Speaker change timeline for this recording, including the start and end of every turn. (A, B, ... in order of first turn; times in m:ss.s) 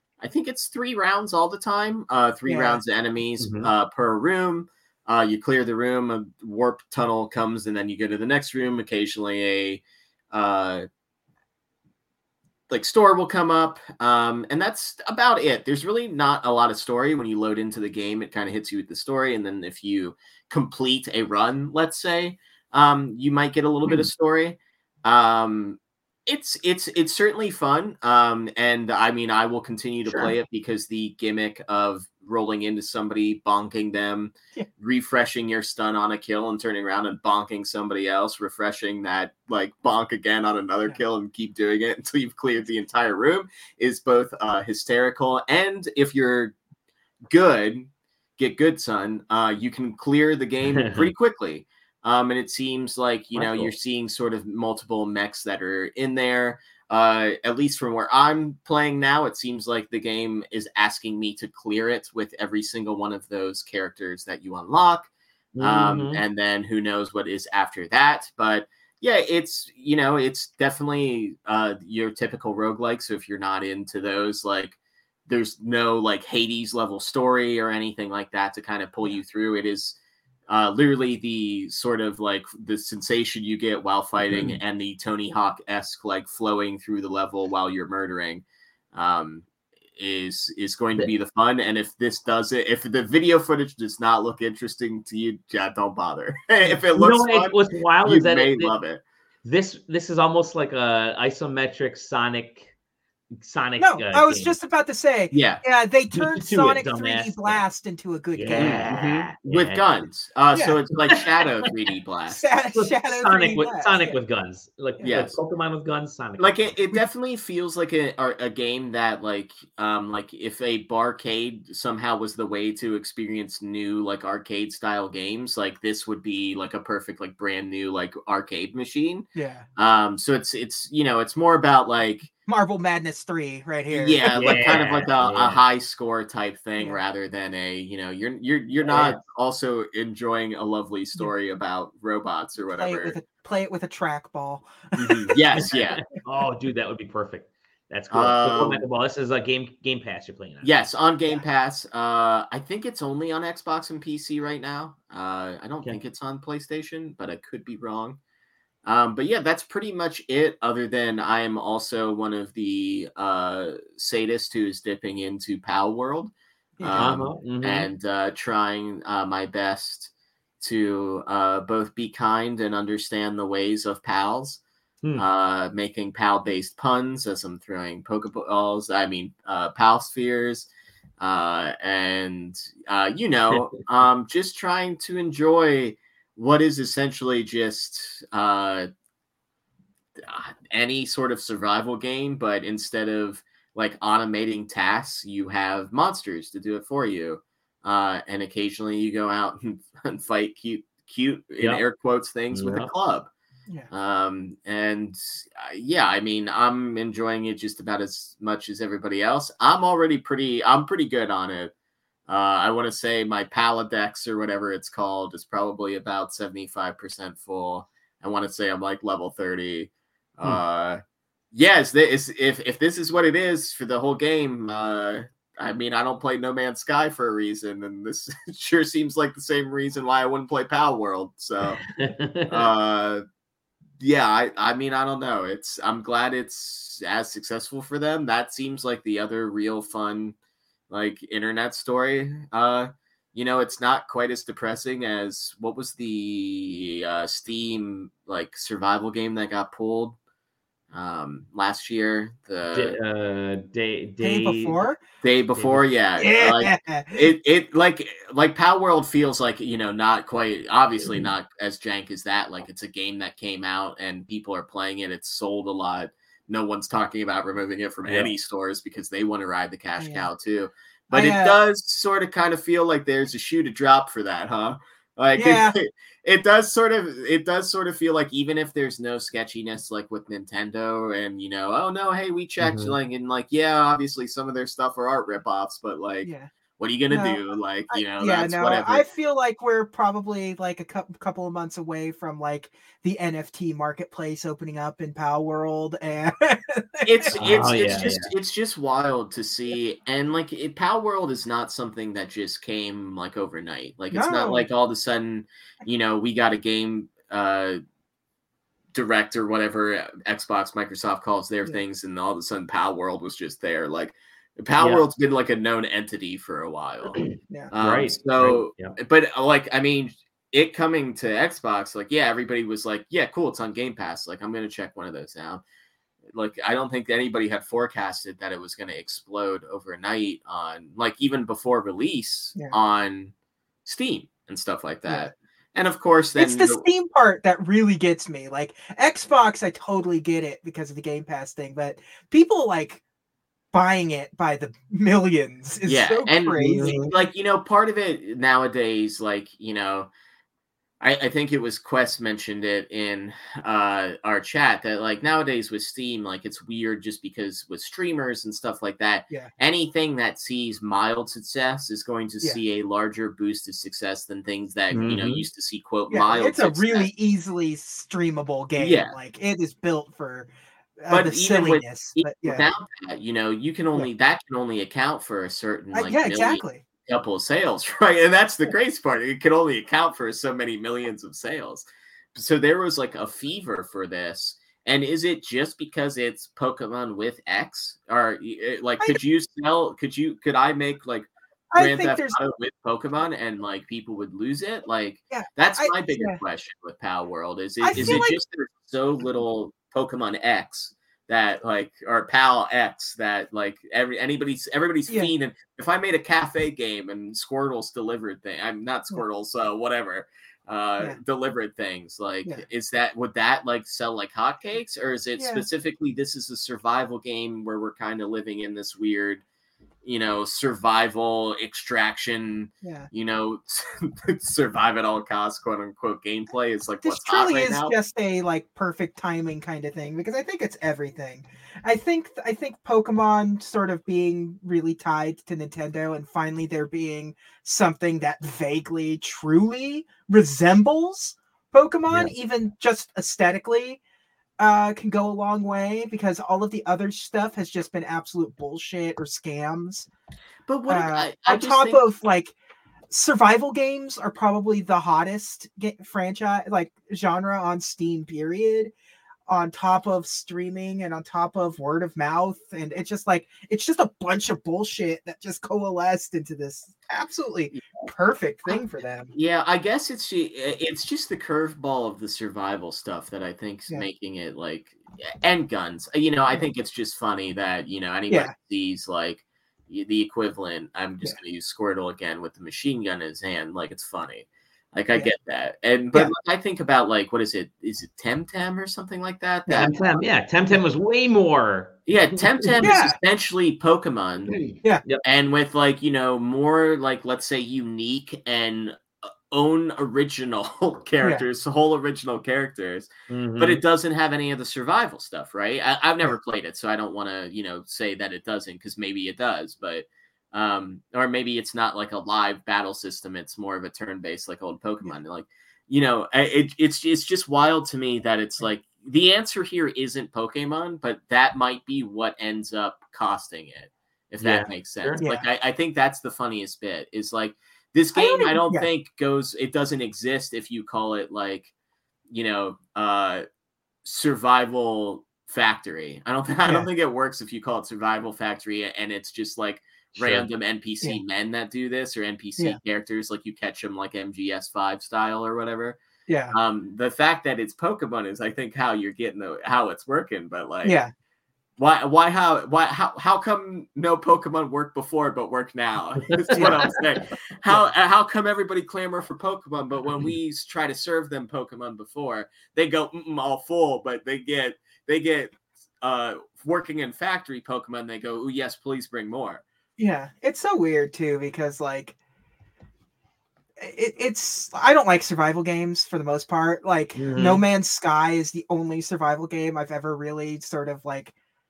0:00.2-0:10.8 A
0:02.4-0:02.8 B
0:03.4-0:03.7 C
0:12.7-0:46.5 A
0:47.3-1:05.1 A
0:50.8-0:51.1 C
0:53.3-0:53.7 C
1:05.5-1:06.2 C
1:05.6-1:20.0 A
1:20.5-1:39.0 A
1:24.3-1:24.6 C
1:36.9-1:38.7 C
1:39.4-1:42.7 C
1:43.4-1:44.5 C
1:43.8-1:48.8 B
1:45.3-1:45.6 A
1:46.1-1:47.6 C
1:48.3-1:49.8 C
1:48.5-1:52.4 A
1:52.3-1:54.2 B
1:52.7-1:56.7 C
1:55.0-1:55.4 A
1:56.4-2:12.3 A
2:09.3-2:09.6 B
2:12.4-2:14.5 B
2:13.9-2:23.2 A
2:14.3-2:15.6 C
2:18.8-2:19.2 C
2:22.8-2:25.8 B
2:25.0-2:26.0 A
2:26.1-2:30.7 C
2:28.1-2:28.8 A
2:30.6-2:38.2 A
2:38.8-2:54.6 A
2:46.8-2:47.1 B
2:47.0-2:47.9 C
2:55.2-3:08.9 A
3:10.2-3:23.3 A
3:22.5-3:22.9 C
3:23.9-3:31.7 A
3:32.3-3:41.0 A
3:41.5-3:51.8 A
3:51.9-3:52.7 C
3:52.5-3:53.2 A
3:54.0-4:00.4 A
4:00.9-4:10.2 A
4:10.9-4:13.0 A
4:12.7-4:14.8 C
4:14.2-4:15.0 B
4:15.2-4:49.0 A
4:16.2-4:17.3 B
4:28.0-4:28.3 C
4:30.0-4:30.3 B
4:31.1-4:31.6 B
4:35.4-4:35.7 B
4:42.6-4:42.9 C
4:47.1-4:47.4 B
4:47.9-4:57.4 B
4:57.0-5:07.8 A
4:57.4-4:58.3 C
5:04.1-5:04.7 B
5:08.9-5:25.6 A
5:14.8-5:15.0 C
5:17.1-5:18.9 C
5:26.3-5:33.3 A
5:33.8-5:36.8 A
5:36.4-5:43.0 B
5:43.7-5:47.1 B
5:45.8-5:50.1 A
5:46.6-5:47.1 C
5:51.0-6:07.1 A
6:04.9-6:05.4 C
6:06.1-6:12.7 B
6:08.8-6:09.1 A
6:11.1-6:59.4 A
6:15.9-6:16.8 B
6:31.7-6:32.4 B
6:35.3-6:36.4 B
6:37.8-6:38.4 B
6:55.4-6:55.6 B
7:00.0-7:07.9 A
7:02.8-7:03.1 B
7:07.0-7:24.0 B
7:24.6-7:30.1 B
7:30.7-7:32.0 A
7:30.9-7:32.5 B
7:33.1-7:38.9 B
7:39.5-7:49.3 B
7:47.7-7:48.0 A
7:49.3-8:10.0 A
8:09.7-8:12.9 C
8:12.1-8:14.6 A
8:12.8-8:13.2 B
8:14.5-8:15.2 C
8:15.2-8:51.7 A
8:23.3-8:23.8 C
8:44.4-8:45.2 C
8:45.2-8:45.4 B
8:48.2-8:48.9 B
8:52.3-8:53.4 A
8:54.0-9:06.0 A
9:00.2-9:00.4 C
9:06.3-9:06.6 B
9:06.5-9:11.0 A
9:10.8-9:11.1 B
9:11.8-9:29.6 A
9:16.5-9:16.9 C
9:16.6-9:16.9 B
9:30.0-9:32.2 B
9:33.8-9:41.3 B
9:37.2-9:37.6 C